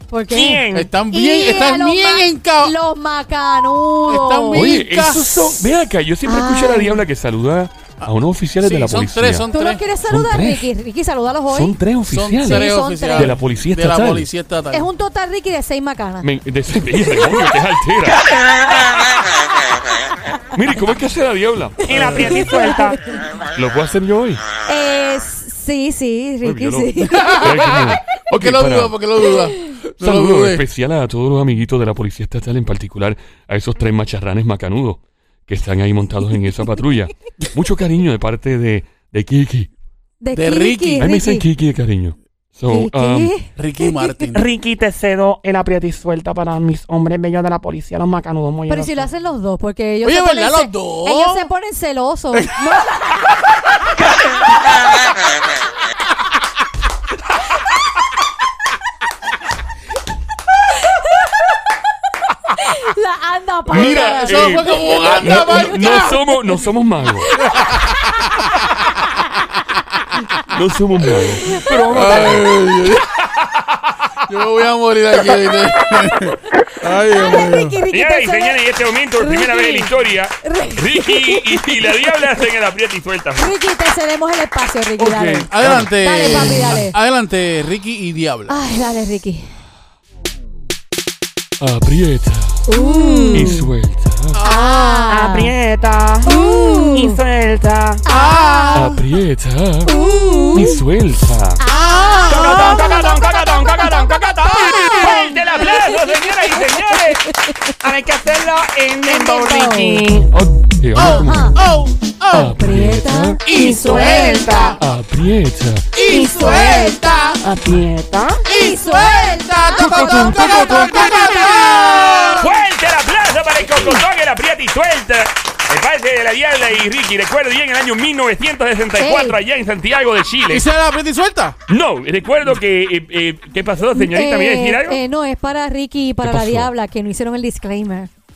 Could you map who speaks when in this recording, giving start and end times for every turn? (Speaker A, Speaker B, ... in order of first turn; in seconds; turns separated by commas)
Speaker A: 0.1-4.8, Speaker B: 0.3-0.9, Speaker C: 0.7-2.7, Speaker C: 4.1-5.5, Speaker D: 4.5-9.5, Speaker A: 6.2-7.0, Speaker C: 8.6-9.8, Speaker A: 9.5-11.8, Speaker D: 10.1-10.7, Speaker D: 11.5-14.3, Speaker C: 12.1-14.9, Speaker A: 12.4-13.3, Speaker A: 14.7-16.3, Speaker D: 16.2-18.3, Speaker A: 17.2-17.4, Speaker D: 20.5-22.3, Speaker B: 21.9-23.0, Speaker A: 21.9-23.2, Speaker D: 23.5-24.4, Speaker A: 24.7-27.8, Speaker D: 26.4-29.0, Speaker C: 27.1-30.6, Speaker A: 29.4-29.8, Speaker D: 30.0-39.7, Speaker A: 40.2-41.5, Speaker C: 40.3-41.1, Speaker D: 41.0-43.3, Speaker A: 42.7-44.2, Speaker C: 43.5-44.5, Speaker B: 44.3-49.1, Speaker A: 48.7-53.3, Speaker C: 50.0-51.5, Speaker A: 60.9-61.3, Speaker A: 62.5-66.6, Speaker D: 63.7-67.3, Speaker C: 63.7-66.2, Speaker A: 67.2-68.3, Speaker C: 67.5-67.9, Speaker D: 70.5-72.5, Speaker A: 71.4-71.7, Speaker C: 71.9-73.0, Speaker E: 73.0-74.0, Speaker C: 74.3-77.8, Speaker A: 77.1-78.6, Speaker E: 77.9-83.5, Speaker A: 79.2-82.2, Speaker A: 83.4-87.0, Speaker D: 85.0-85.9, Speaker C: 85.5-88.6, Speaker A: 88.5-89.5, Speaker D: 91.6-92.7, Speaker A: 92.7-93.7, Speaker C: 93.0-93.3, Speaker D: 93.3-94.4, Speaker C: 94.3-95.1, Speaker A: 94.4-95.5, Speaker B: 95.1-98.0, Speaker A: 96.2-97.2, Speaker A: 98.0-99.0, Speaker C: 98.1-99.0, Speaker D: 98.7-100.0, Speaker A: 99.8-100.8, Speaker D: 100.5-101.6, Speaker A: 101.6-107.8, Speaker C: 101.7-102.9, Speaker B: 102.3-107.2, Speaker E: 105.2-107.1, Speaker B: 107.8-110.3, Speaker A: 109.1-110.1, Speaker D: 110.3-111.6, Speaker C: 111.0-112.6, Speaker A: 111.0-111.6, Speaker D: 112.3-113.4, Speaker A: 112.3-114.8, Speaker C: 113.4-114.8, Speaker B: 113.5-114.8, Speaker D: 114.8-116.0, Speaker C: 115.9-117.4, Speaker B: 116.1-118.4, Speaker A: 116.1-117.3, Speaker C: 118.5-122.5, Speaker A: 118.5-122.4, Speaker B: 119.9-121.7, Speaker E: 122.4-130.7, Speaker A: 129.0-129.4, Speaker C: 130.5-131.6, Speaker E: 131.7-135.0, Speaker A: 133.9-138.1, Speaker D: 136.2-136.7